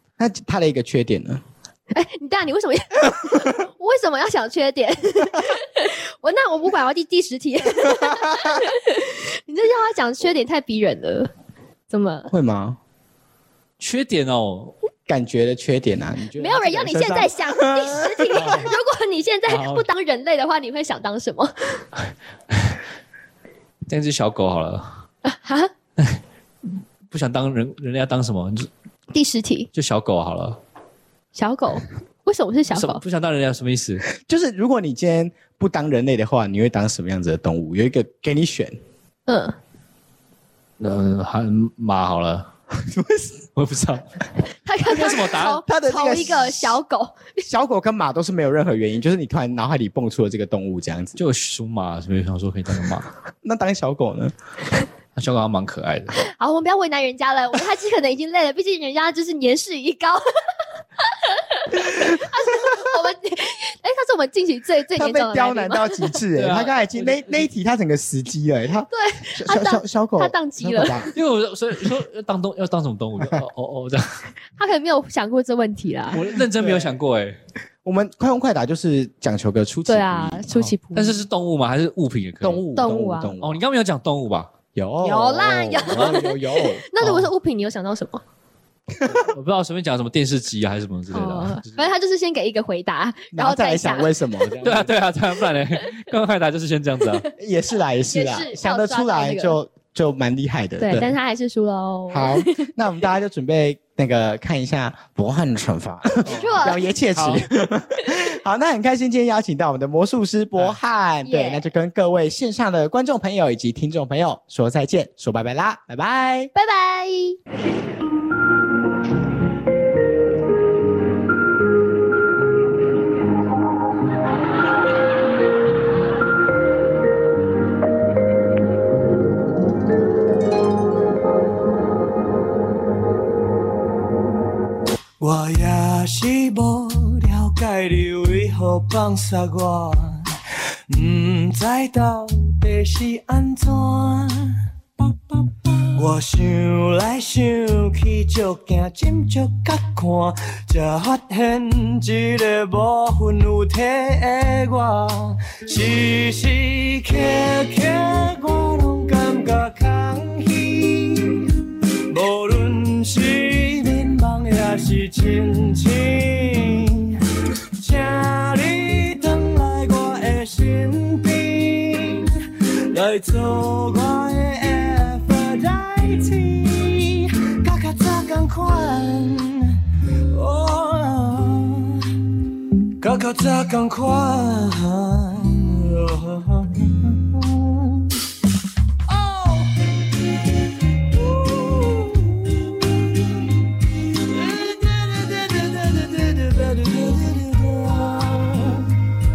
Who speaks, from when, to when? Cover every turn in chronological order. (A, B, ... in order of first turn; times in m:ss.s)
0:00.2-0:01.4 A
0:01.9-0:11.3 B
0:11.9-0:12.3 B
0:12.3-0:12.8 A
0:13.8-0:14.7 C
0:15.1-0:18.6 A
0:16.4-0:21.8 B
0:18.3-0:18.7 C
0:19.5-0:19.8 C
0:22.5-0:22.8 C
0:23.9-0:25.0 C
0:25.2-0:25.7 B
0:27.1-0:28.7 C
0:29.1-0:29.7 B
0:29.7-0:30.6 C
0:31.3-0:33.0 B
0:32.7-0:34.1 C
0:34.2-0:38.8 A
0:39.3-0:39.6 B
0:40.8-0:42.5 C
0:42.8-0:43.4 A
0:43.6-0:44.0 C
0:44.6-0:47.4 B
0:44.8-0:45.6 C
0:45.6-0:46.8 A
0:47.4-0:51.2 A
0:51.2-0:53.1 C
0:53.4-0:54.3 A
0:55.2-0:56.2 C
0:56.2-1:00.2 B
1:01.3-1:06.2 B
1:04.9-1:11.1 A
1:06.3-1:07.5 C
1:08.9-1:11.1 B
1:11.1-1:14.3 C
1:14.6-1:16.2 B
1:16.1-1:17.4 C
1:16.5-1:16.9 A
1:17.8-1:20.4 A
1:19.9-1:21.2 B
1:20.5-1:24.5 C
1:22.4-1:23.6 A
1:22.8-1:23.3 B
1:24.7-1:26.8 A
1:25.0-1:28.2 B
1:25.9-1:26.2 C
1:27.0-1:27.3 C
1:29.1-1:31.8 C
1:31.1-1:34.1 B
1:33.3-1:34.9 A
1:34.6-1:37.3 C
1:37.4-1:41.1 A
1:38.1-1:39.6 B
1:40.8-1:42.6 B
1:42.1-1:56.5 A
1:46.2-1:46.8 B
1:46.2-1:47.4 C
1:51.2-1:51.6 B
1:56.5-1:57.4 B
2:15.2-2:20.3 D
2:20.9-2:41.5 D
2:42.1-2:47.2 D
2:47.8-2:52.3 D
2:52.9-2:59.8 D
3:00.3-3:02.0 D
3:03.0-3:08.2 D
3:09.1-3:19.0 D